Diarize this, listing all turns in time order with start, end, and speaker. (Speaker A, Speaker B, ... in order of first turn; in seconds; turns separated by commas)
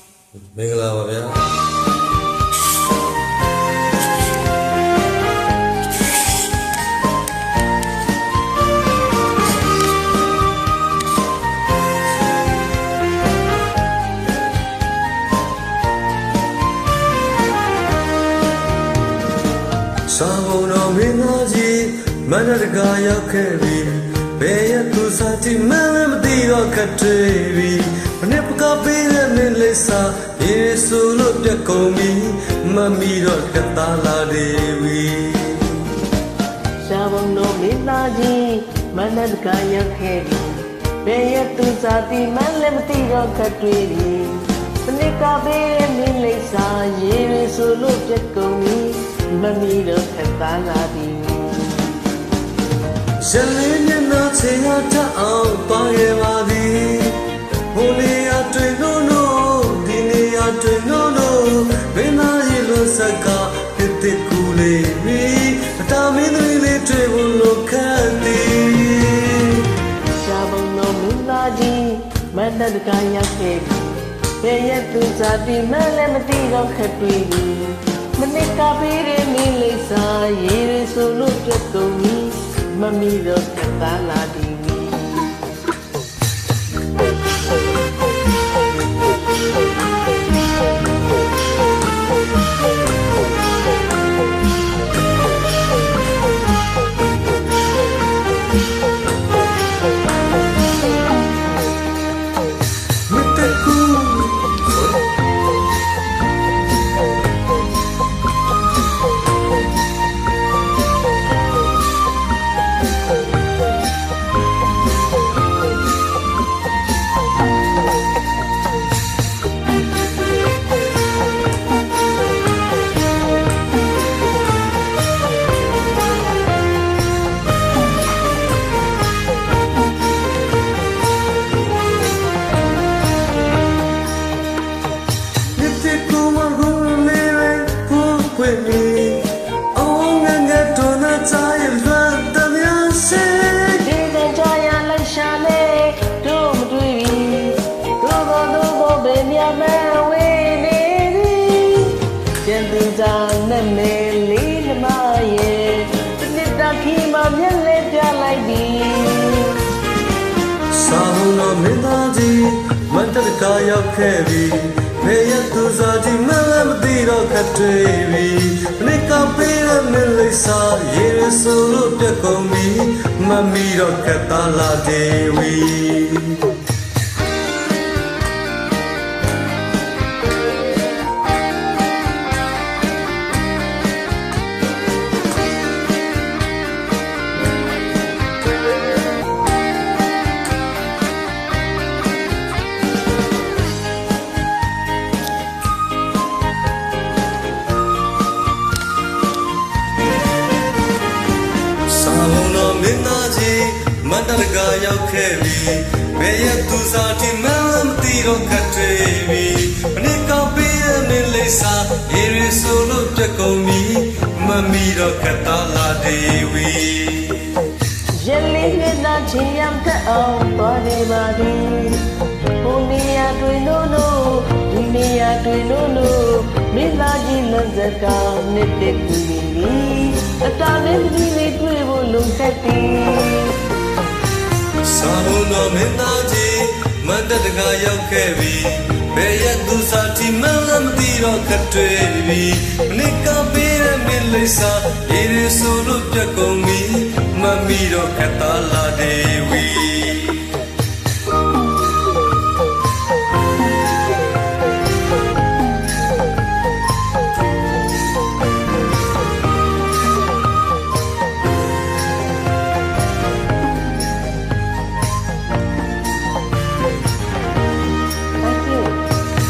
Speaker A: 0.3-1.5, Speaker A: 20.1-35.9, Speaker B: 36.8-52.0, Speaker A: 53.2-69.7, Speaker B: 70.2-85.4, Speaker A: 103.1-105.0, Speaker A: 135.6-143.8, Speaker B: 143.8-159.6, Speaker A: 160.7-176.5, Speaker A: 201.9-217.6, Speaker B: 218.2-222.1, Speaker B: 222.6-233.6, Speaker A: 234.8-250.5, Speaker B: 268.4-269.0